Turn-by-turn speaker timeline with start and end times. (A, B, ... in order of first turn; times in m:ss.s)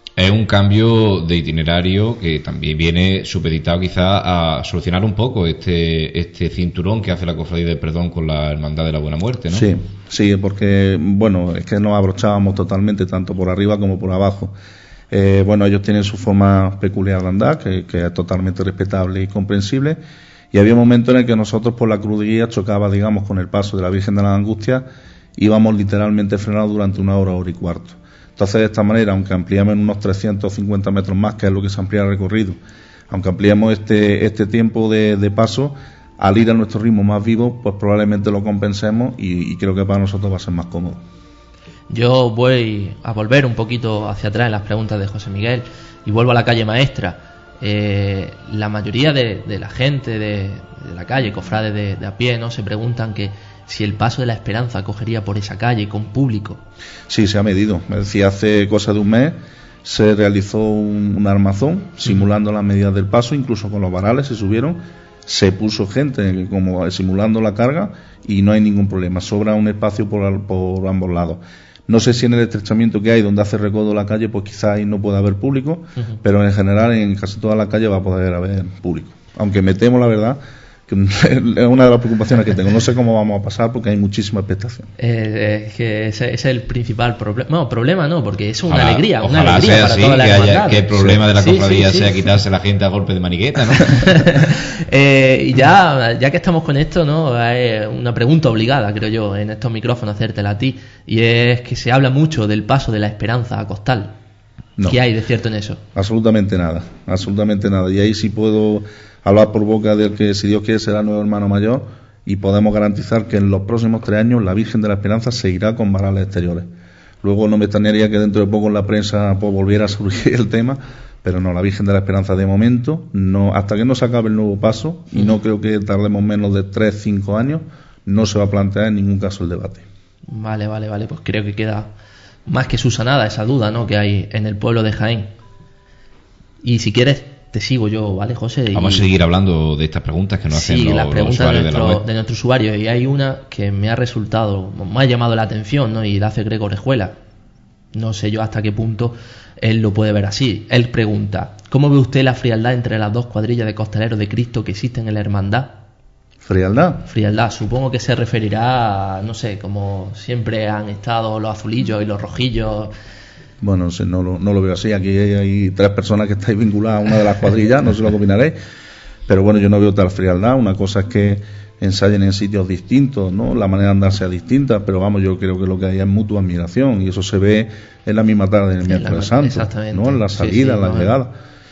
0:00.2-0:09.7 A
0:09.5-0:14.5 B
0:15.1-0:20.0 B
0:20.5-0:24.9 B
0:25.4-0:32.6 B
0:33.1-0:41.0 B
0:41.9-0:56.6 C
0:57.1-1:24.9 B
1:25.0-1:32.1 C
1:28.7-1:34.1 A
1:33.8-1:44.1 C
1:44.9-1:45.8 C
1:46.0-1:56.7 B
1:57.2-2:09.9 B
2:10.3-2:11.9 C
2:12.5-2:15.3 C
2:16.6-2:19.1 C
2:18.7-2:22.0 A
2:20.5-2:27.2 C
2:27.9-2:35.8 C
2:36.4-2:37.1 B
2:37.0-2:42.9 C
2:43.6-2:48.6 B
2:49.3-3:01.3 B
2:58.9-3:01.2 C